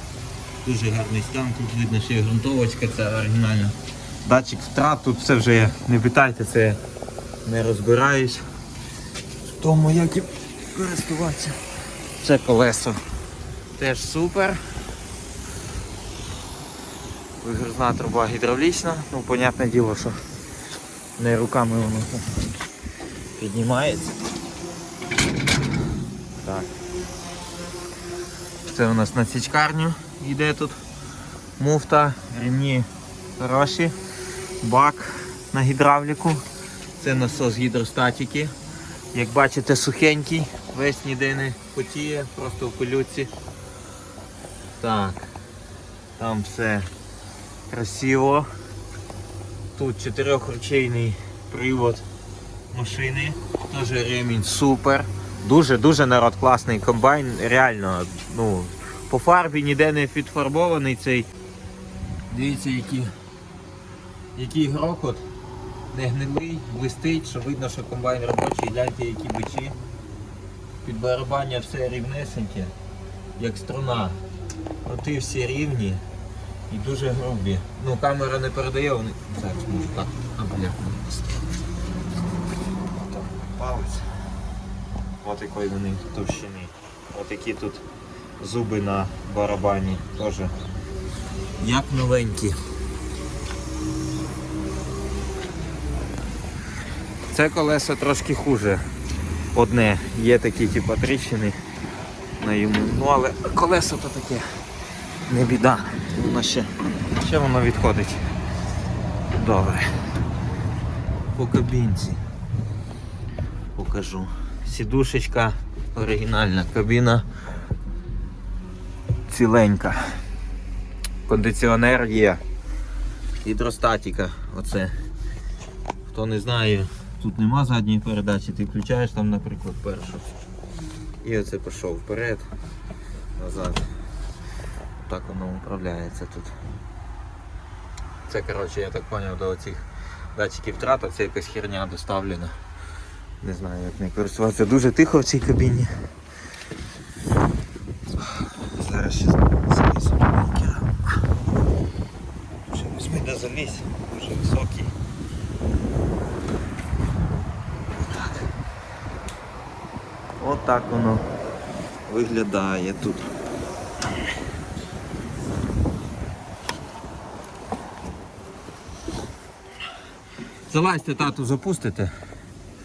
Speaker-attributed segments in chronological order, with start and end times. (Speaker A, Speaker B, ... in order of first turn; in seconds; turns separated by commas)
Speaker A: 0.6-6.8, Speaker A: 7.4-8.4, Speaker A: 9.5-11.6, Speaker A: 12.2-13.0, Speaker A: 13.7-14.6, Speaker A: 17.4-20.2, Speaker A: 21.2-22.4, Speaker A: 23.4-24.2, Speaker A: 26.4-26.7, Speaker A: 28.7-30.8, Speaker A: 31.6-34.0, Speaker A: 34.6-36.4, Speaker A: 37.0-38.5, Speaker A: 39.1-43.3, Speaker A: 44.8-45.3, Speaker A: 46.2-46.9, Speaker A: 47.7-48.5, Speaker A: 49.7-52.0, Speaker A: 52.7-61.3, Speaker A: 62.3-63.1, Speaker A: 64.3-65.2, Speaker A: 65.9-69.8, Speaker A: 70.8-72.7, Speaker A: 73.4-74.2, Speaker A: 74.8-76.0, Speaker A: 76.7-81.3, Speaker A: 82.9-84.1, Speaker A: 85.2-87.8, Speaker A: 88.4-90.5, Speaker A: 91.6-92.6, Speaker A: 97.3-98.8, Speaker A: 99.5-101.6, Speaker A: 102.4-104.5, Speaker A: 105.2-108.2, Speaker A: 109.3-110.0, Speaker A: 111.3-112.2, Speaker A: 113.7-117.3, Speaker A: 119.3-120.2, Speaker A: 121.2-122.4, Speaker A: 123.4-124.9, Speaker A: 126.1-130.2, Speaker A: 131.2-132.5, Speaker A: 133.3-133.9, Speaker A: 135.0-136.5, Speaker A: 138.3-142.5, Speaker A: 143.4-146.1, Speaker A: 148.2-151.2, Speaker A: 152.7-154.9, Speaker A: 157.9-158.4, Speaker A: 160.4-161.2, Speaker A: 162.1-163.3, Speaker A: 170.7-172.2